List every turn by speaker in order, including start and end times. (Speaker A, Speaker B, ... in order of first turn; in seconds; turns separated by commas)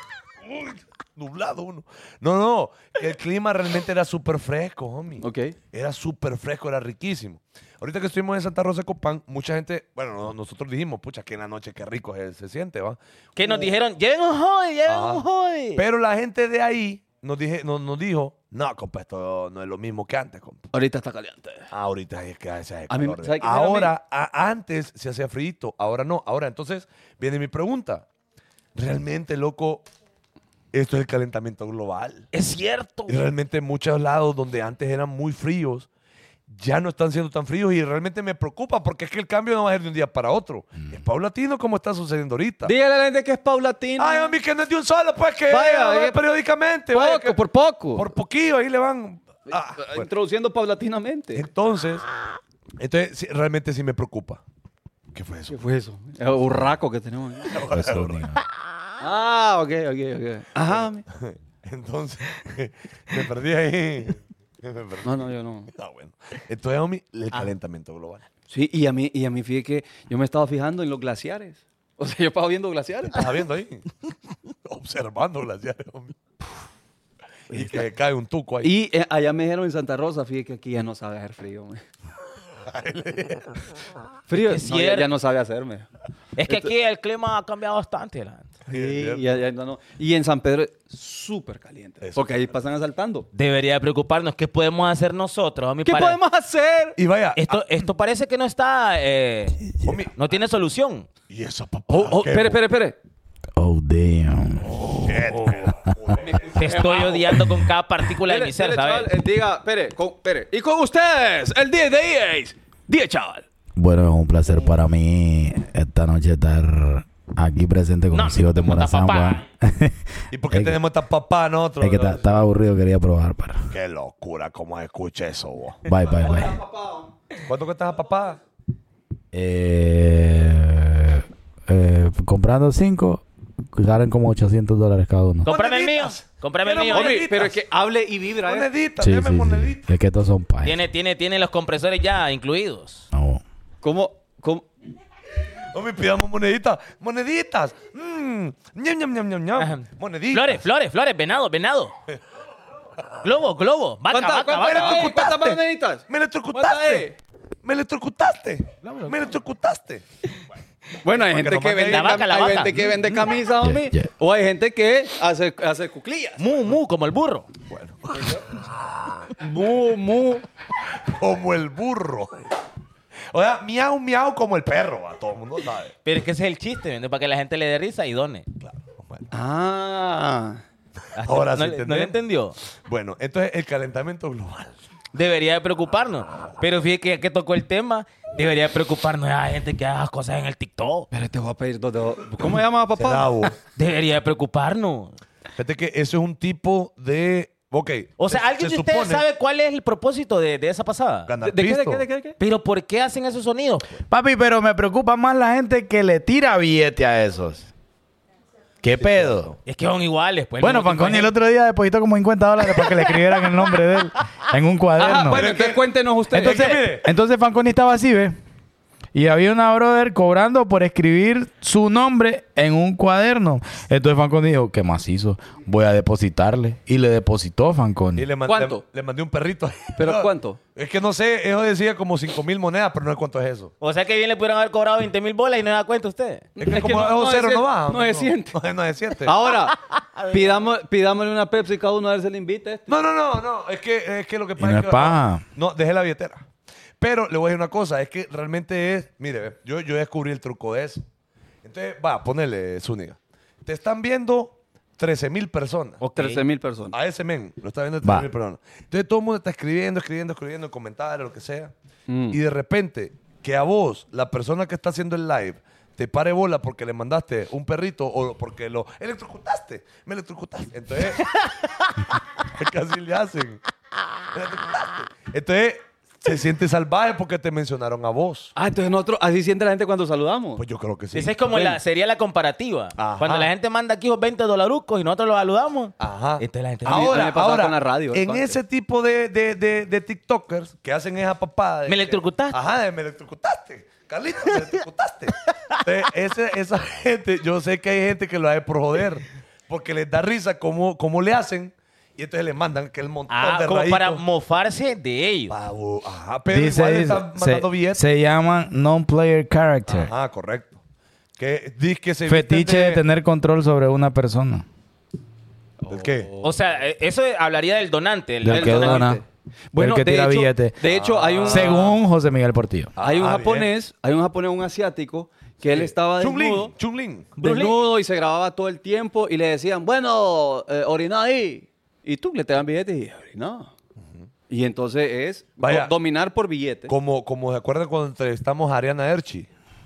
Speaker A: 0.4-13.0, Speaker B: 5.2-5.5, Speaker C: 13.4-15.8, Speaker A: 14.9-15.2, Speaker A: 15.8-20.7, Speaker B: 20.7-21.7, Speaker A: 21.7-28.1, Speaker B: 22.9-23.9, Speaker A: 28.8-29.9, Speaker A: 30.7-32.3, Speaker C: 32.3-33.2, Speaker A: 33.1-35.9, Speaker A: 36.5-42.7, Speaker B: 42.6-44.4, Speaker A: 44.0-47.4, Speaker B: 45.5-46.2, Speaker B: 46.9-48.1, Speaker A: 48.0-50.1, Speaker B: 49.5-51.5, Speaker A: 51.4-52.1, Speaker A: 52.8-54.4, Speaker A: 55.1-55.6, Speaker B: 55.5-57.6, Speaker A: 57.5-58.3, Speaker D: 57.7-58.4, Speaker B: 59.0-61.1, Speaker A: 60.7-65.1, Speaker B: 65.0-65.7, Speaker A: 65.7-68.2, Speaker B: 68.5-73.2, Speaker A: 73.1-73.9, Speaker A: 74.7-76.2, Speaker B: 77.5-77.9, Speaker A: 77.5-78.7, Speaker B: 78.6-81.8, Speaker A: 82.7-83.6, Speaker B: 84.3-85.9, Speaker C: 84.4-85.1, Speaker C: 86.4-88.5, Speaker B: 86.5-86.7, Speaker B: 88.7-93.3, Speaker A: 88.7-89.3, Speaker A: 92.0-92.4, Speaker C: 93.3-96.2, Speaker B: 95.8-97.0, Speaker A: 97.0-97.6, Speaker C: 97.4-101.1, Speaker A: 99.8-100.1, Speaker A: 101.3-102.6, Speaker B: 101.9-103.0, Speaker D: 103.6-105.9, Speaker A: 104.8-107.1, Speaker B: 106.2-107.3, Speaker C: 106.6-109.1, Speaker D: 107.3-107.7, Speaker B: 108.2-113.5, Speaker D: 113.8-120.8, Speaker C: 118.1-119.4, Speaker A: 120.3-122.4, Speaker D: 121.8-123.7, Speaker A: 123.7-125.9, Speaker D: 125.8-126.6, Speaker B: 126.0-127.1, Speaker A: 127.5-128.4, Speaker D: 129.3-135.5, Speaker C: 135.4-137.2, Speaker A: 135.5-137.6, Speaker B: 136.9-138.7, Speaker A: 138.4-139.9, Speaker D: 139.0-140.8, Speaker C: 140.6-143.1, Speaker D: 143.1-143.4, Speaker B: 143.8-144.7, Speaker A: 145.7-150.6, Speaker C: 149.6-151.9, Speaker C: 153.2-155.1, Speaker B: 154.1-157.2, Speaker A: 154.6-157.1, Speaker A: 157.6-160.0, Speaker B: 161.0-166.4, Speaker A: 161.1-162.6, Speaker C: 161.9-162.8, Speaker D: 163.6-164.1, Speaker C: 166.4-167.5, Speaker A: 167.7-168.4, Speaker B: 168.2-168.4, Speaker A: 169.0-169.3, Speaker B: 169.4-170.4, Speaker A: 171.0-172.4, Speaker A: 173.3-175.9, Speaker C: 176.1-178.5, Speaker A: 178.6-179.3, Speaker B: 179.3-180.6, Speaker C: 181.2-182.6, Speaker A: 181.2-182.2, Speaker A: 182.8-184.8, Speaker C: 185.1-191.1, Speaker B: 191.1-193.3, Speaker A: 192.4-193.6, Speaker C: 193.8-195.2, Speaker A: 195.6-199.2, Speaker C: 198.2-201.3, Speaker A: 201.3-202.1, Speaker B: 201.4-202.4, Speaker C: 202.4-204.0, Speaker D: 204.1-207.7, Speaker D: 208.8-209.5, Speaker A: 208.9-209.6, Speaker C: 209.7-211.3, Speaker D: 210.6-215.4, Speaker B: 215.0-216.8, Speaker A: 215.1-217.1, Speaker D: 216.3-218.4, Speaker D: 219.1-228.3, Speaker A: 228.2-233.7, Speaker B: 228.5-228.8, Speaker B: 230.0-230.6, Speaker C: 233.8-236.5, Speaker B: 236.6-238.6, Speaker A: 236.6-239.3, Speaker B: 239.2-239.8, Speaker C: 239.9-240.5, Speaker B: 240.3-242.9, Speaker A: 242.9-246.5, Speaker D: 244.6-245.4, Speaker A: 247.0-251.0, Speaker A: 251.6-256.0, Speaker B: 256.0-256.9, Speaker C: 256.1-256.4, Speaker A: 256.9-261.7, Speaker D: 258.0-258.3, Speaker B: 262.1-262.4, Speaker A: 262.3-271.4, Speaker A: 272.4-273.6, Speaker A: 274.3-278.5, Speaker B: 278.6-280.6, Speaker A: 280.6-281.8, Speaker C: 281.1-287.3, Speaker A: 283.0-283.5, Speaker A: 286.0-304.2, Speaker B: 286.9-288.6, Speaker C: 291.9-292.6, Speaker C: 303.3-305.6, Speaker A: 305.5-308.0, Speaker D: 306.5-310.1, Speaker A: 309.9-310.8, Speaker A: 311.4-313.0, Speaker D: 312.3-314.7, Speaker B: 315.8-316.6, Speaker A: 315.9-316.3, Speaker C: 316.4-319.1, Speaker D: 318.4-319.2, Speaker B: 318.5-321.9, Speaker D: 319.8-320.8, Speaker A: 320.8-321.9, Speaker D: 321.4-322.9, Speaker A: 323.0-323.7, Speaker B: 323.0-326.7, Speaker A: 325.6-327.3, Speaker C: 327.4-327.8, Speaker B: 327.4-333.7, Speaker B: 334.5-336.9, Speaker A: 335.6-335.9, Speaker A: 336.9-339.5